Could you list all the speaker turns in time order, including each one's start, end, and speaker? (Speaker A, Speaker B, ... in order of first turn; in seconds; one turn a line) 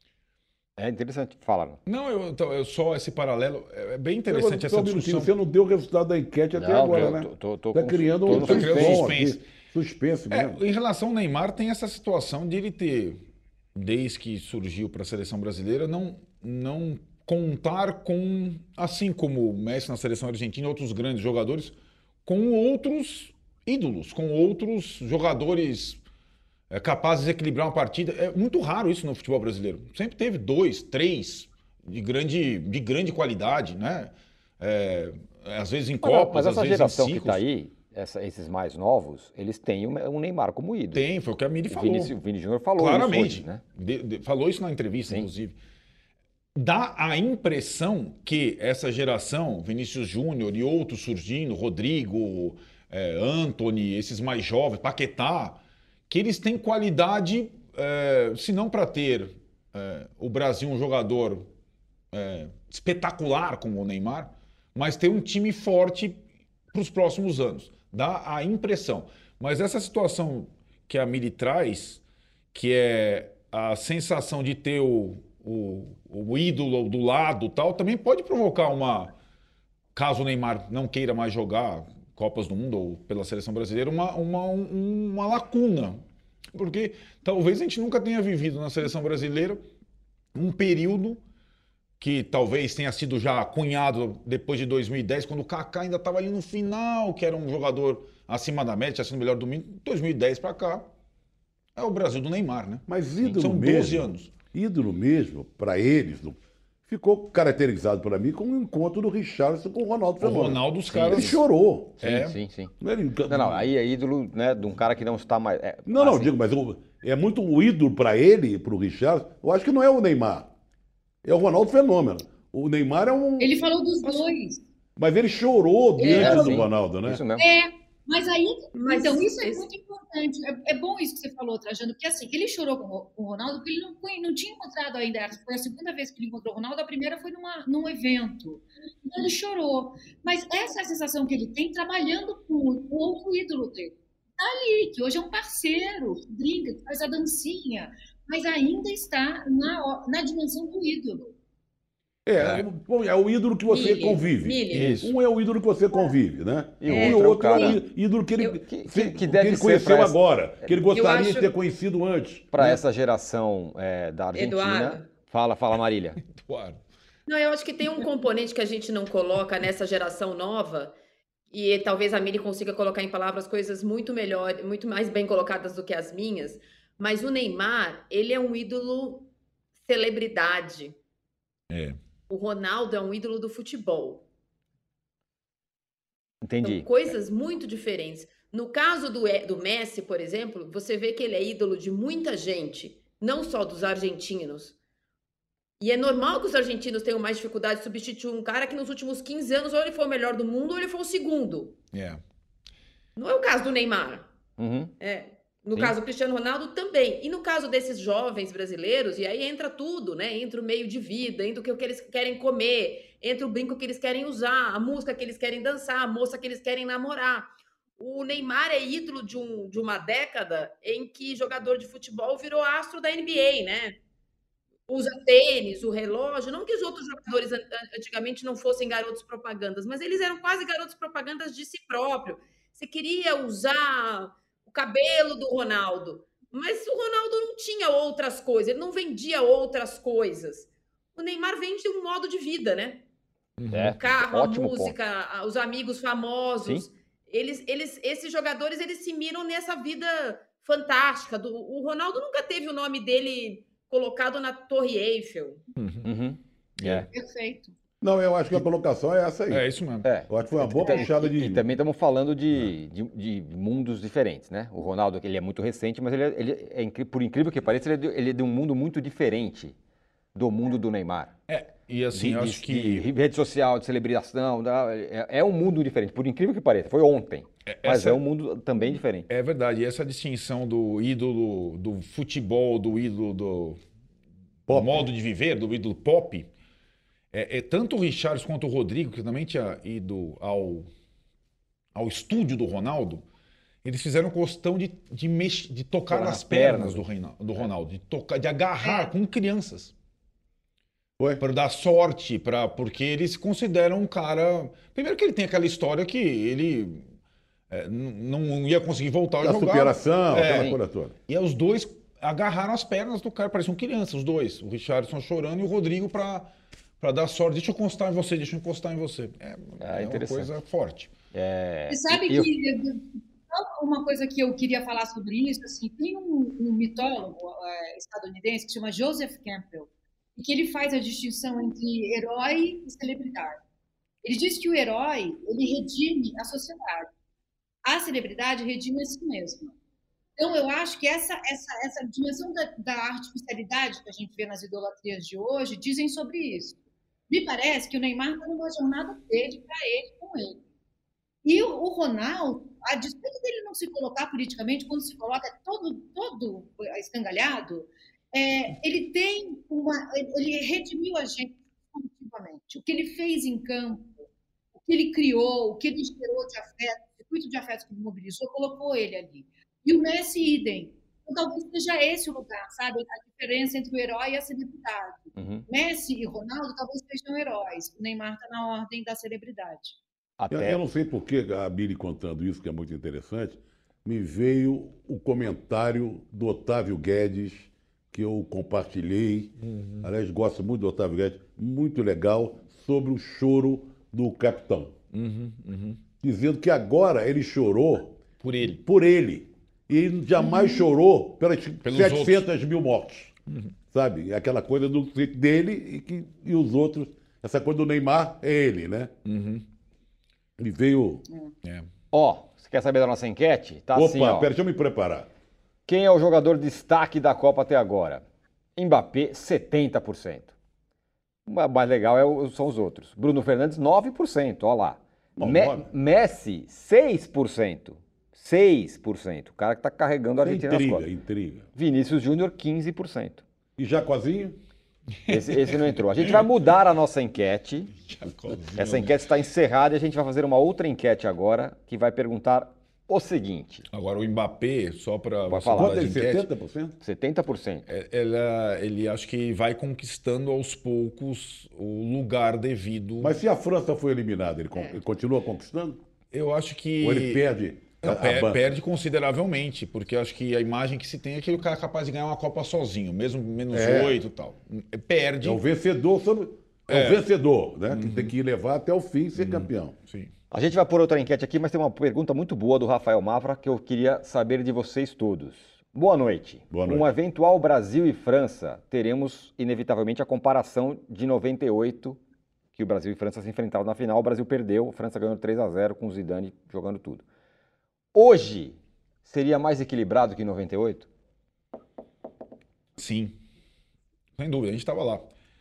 Speaker A: 0.8-1.8
Speaker B: 1.9-5.3
Speaker C: 4.3-10.6
Speaker A: 6.6-9.1
Speaker B: 8.3-9.4
Speaker B: 10.3-13.2
Speaker B: 13.8-26.0
Speaker B: 26.7-37.4
Speaker A: 36.0-41.0
Speaker B: 40.9-42.1
Speaker A: 41.7-43.6
Speaker B: 42.8-45.6
Speaker B: 46.6-61.5
Speaker B: 62.1-66.2
Speaker B: 66.7-72.0
Speaker B: 72.5-79.2
Speaker B: 80.0-86.0
Speaker B: 86.5-89.7
Speaker B: 90.3-91.2
Speaker B: 92.0-100.9
Speaker B: 101.8-104.3
Speaker C: 102.9-112.0
Speaker B: 110.2-111.4
Speaker A: 110.9-111.4
Speaker A: 112.0-112.7
Speaker B: 112.0-112.4
Speaker C: 112.8-113.7
Speaker A: 113.3-116.3
Speaker C: 115.9-120.5
Speaker C: 121.2-123.6
Speaker D: 123.4-124.6
Speaker E: 124.0-124.3
Speaker C: 125.0-127.2
Speaker E: 126.0-126.6
Speaker A: 126.0-127.5
Speaker D: 127.4-151.3
Speaker E: 128.7-129.7
Speaker C: 152.3-162.7
Speaker B: 152.4-152.7
Speaker E: 153.7-155.0
Speaker B: 154.7-155.1
Speaker A: 156.8-157.8
Speaker E: 156.9-157.8
Speaker A: 158.6-160.8
Speaker E: 160.9-161.5
Speaker A: 162.5-166.2
Speaker E: 164.3-165.1
Speaker B: 166.2-166.8
Speaker E: 167.3-170.9
Speaker E: 171.5-179.3
Speaker E: 179.8-181.0
Speaker B: 181.7-182.0
Speaker E: 182.3-184.2
Speaker A: 186.4-186.9
Speaker E: 186.6-194.8
Speaker E: 195.8-201.8
Speaker B: 201.9-202.2
Speaker E: 203.2-204.3
Speaker A: 204.6-204.9
Speaker E: 205.0-224.0
Speaker E: 224.9-243.0
Speaker B: 243.6-244.0
Speaker A: 243.7-244.9
Speaker E: 244.0-255.6
Speaker B: 255.8-256.1
Speaker A: 256.1-257.1
Speaker B: 256.8-257.1
Speaker D: 257.1-257.8
Speaker C: 258.0-259.7
Speaker B: 259.5-260.1
Speaker A: 260.0-269.8
Speaker C: 260.3-261.6
Speaker A: 270.4-271.3
Speaker B: 271.5-273.1
Speaker A: 272.1-279.3
Speaker B: 277.7-278.2
Speaker B: 279.3-283.8
Speaker C: 284.7-285.1
Speaker B: 284.7-286.5
Speaker B: 287.3-290.9
Speaker B: 291.9-293.2
Speaker B: 293.8-299.9
Speaker A: 296.1-297.1
Speaker D: 298.8-299.1
Speaker B: 301.4-307.1
Speaker B: 307.7-316.5
Speaker C: 309.4-311.1
Speaker B: 317.0-321.1
Speaker A: 319.8-320.5
Speaker A: 321.3-322.5
Speaker D: 321.9-333.6
Speaker D: 334.2-337.1
Speaker D: 337.9-339.7
Speaker D: 340.4-346.8
Speaker D: 347.3-350.6
Speaker D: 351.4-364.2
Speaker D: 364.8-380.0
Speaker A: 375.4-375.6
Speaker A: 380.4-380.8
Speaker C: 380.5-394.9
Speaker B: 389.6-390.1
Speaker B: 395.1-396.0
Speaker C: 396.2-403.3
Speaker B: 398.4-398.8
Speaker B: 401.8-402.5
Speaker C: 403.9-409.1
Speaker B: 409.2-409.6
Speaker C: 410.6-411.2
Speaker A: 412.1-414.5
Speaker C: 413.9-415.3
Speaker A: 415.9-418.2
Speaker A: 418.8-420.5
Speaker A: 421.5-431.1
Speaker C: 425.4-425.9
Speaker C: 430.4-431.7
Speaker A: 431.8-433.4
Speaker C: 433.8-434.6
Speaker B: 435.3-436.5
Speaker A: 435.3-437.9
Speaker B: 438.0-439.2
Speaker A: 438.8-443.9
Speaker B: 443.9-446.5
Speaker A: 445.5-446.1
Speaker C: 445.7-447.0
Speaker A: 447.0-447.9
Speaker B: 447.9-453.3
Speaker C: 453.2-456.0
Speaker B: 456.3-457.4
Speaker C: 457.0-458.6
Speaker B: 458.0-465.6
Speaker C: 463.7-464.2
Speaker C: 465.4-469.9
Speaker B: 466.9-467.3
Speaker B: 467.9-468.4
Speaker B: 469.4-470.3
Speaker A: 470.5-482.2
Speaker C: 476.7-477.1
Speaker A: 482.8-487.2
Speaker A: 488.1-491.1
Speaker B: 493.0-493.4
Speaker B: 494.4-495.2